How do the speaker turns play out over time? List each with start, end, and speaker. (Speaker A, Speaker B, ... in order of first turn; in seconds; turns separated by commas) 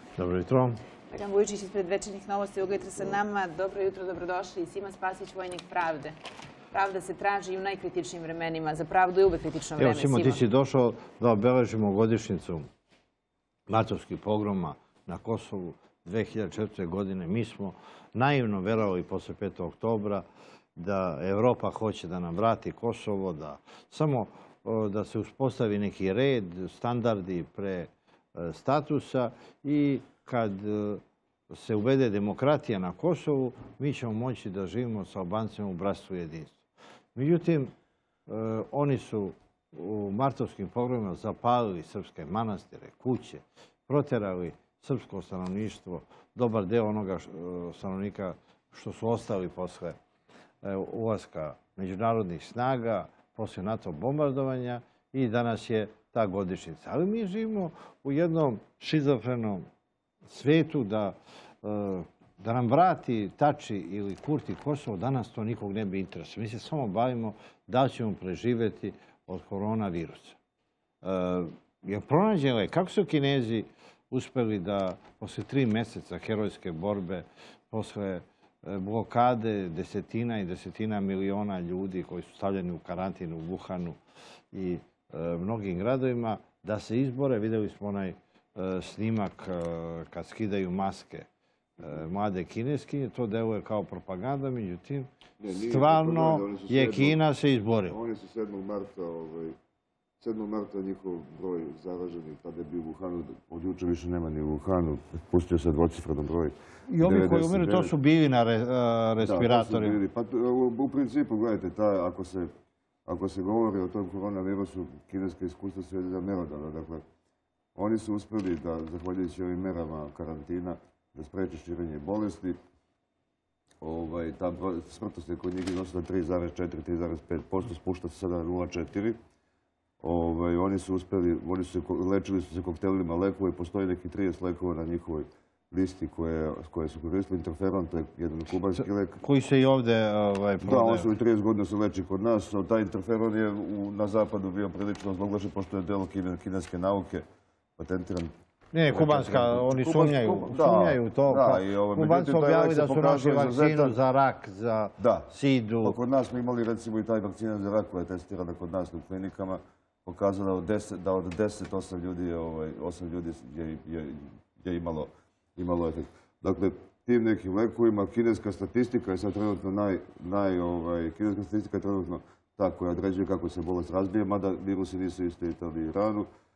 Speaker A: 0.2-0.8, Speaker B: 1.1-6.2, Speaker B: 6.7-10.4, Speaker A: 9.8-12.7, Speaker A: 13.7-20.2, Speaker A: 20.8-36.6, Speaker A: 37.1-37.7, Speaker A: 38.3-50.0, Speaker A: 50.6-59.6, Speaker A: 60.3-70.4, Speaker A: 71.0-84.0, Speaker A: 84.5-91.3, Speaker A: 91.8-98.0, Speaker C: 95.4-97.2, Speaker C: 97.9-99.5, Speaker C: 100.2-107.9, Speaker A: 106.9-110.0, Speaker C: 109.2-112.5, Speaker C: 113.1-117.0, Speaker C: 117.8-122.6, Speaker C: 123.8-129.2, Speaker C: 130.0-139.2, Speaker A: 138.8-141.1, Speaker C: 140.6-147.2, Speaker C: 147.8-148.3, Speaker A: 148.7-156.0, Speaker C: 148.9-154.0, Speaker C: 155.0-155.3, Speaker C: 155.8-176.3